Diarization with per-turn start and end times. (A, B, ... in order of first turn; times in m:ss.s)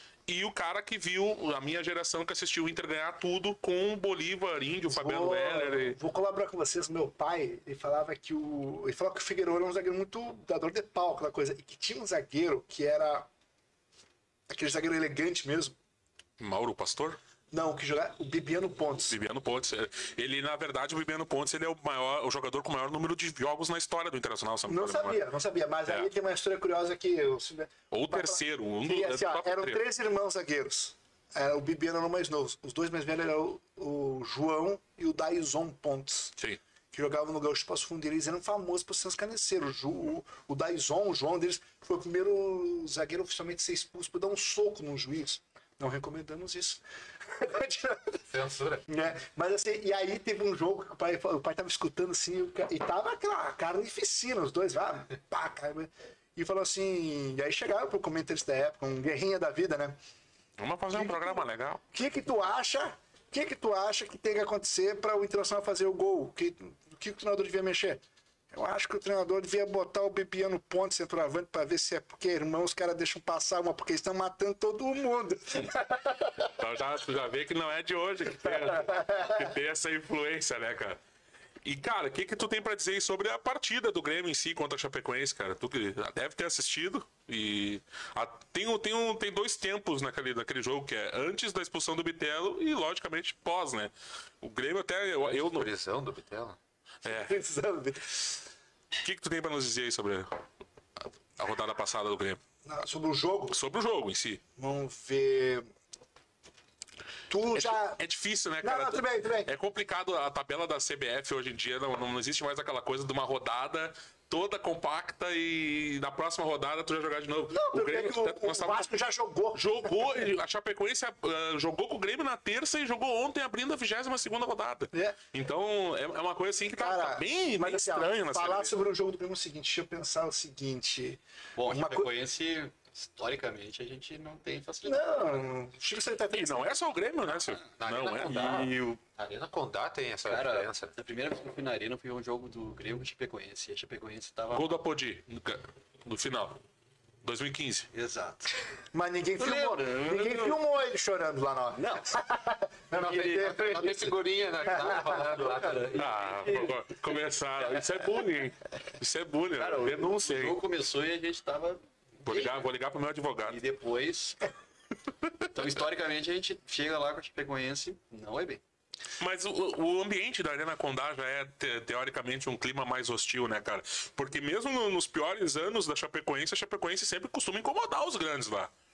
0:00.3-0:06.0 A
0:04.9-0:13.3 B
0:14.5-0:15.8 B
0:16.4-0:17.2 A
0:17.5-0:19.2 B
0:19.1-0:25.2 A
0:24.7-0:36.3 B
0:27.9-0:29.8 A
0:36.9-0:48.2 B
0:48.3-0:48.8 C
0:48.9-1:00.0 B
1:00.6-1:01.8 A
1:00.9-1:16.3 B
1:16.4-1:21.0 A
1:21.6-1:35.7 A
1:35.2-1:36.6 C
1:37.0-1:37.3 A
1:37.0-1:38.4 B
1:39.0-1:40.3 A
1:41.4-1:42.4 A
1:42.6-1:43.6 B
1:43.5-1:44.4 A
1:44.6-1:45.7 B
1:47.3-1:48.0 B
1:47.5-1:58.9 A
1:48.6-1:49.5 B
1:57.5-2:00.3 B
1:59.5-2:08.8 A
2:04.9-2:05.2 B
2:06.8-2:12.1 B
2:11.6-2:15.5 D
2:14.8-2:16.8 B
2:16.3-2:18.7 A
2:17.8-2:20.9 C
2:18.2-2:19.0 D
2:20.3-2:24.8 D
2:24.5-2:26.6 A
2:27.2-2:27.9 A
2:27.9-2:28.5 D
2:28.9-2:34.1 B
2:29.4-2:30.6 D
2:31.7-2:32.2 D
2:32.9-2:33.8 D
2:33.0-2:36.0 C
2:34.7-2:35.2 B
2:34.8-2:37.0 D
2:35.9-2:40.6 A
2:39.5-2:42.6 D
2:42.2-2:43.6 A
2:43.4-2:44.4 D
2:45.5-2:48.6 D
2:49.2-2:58.7 A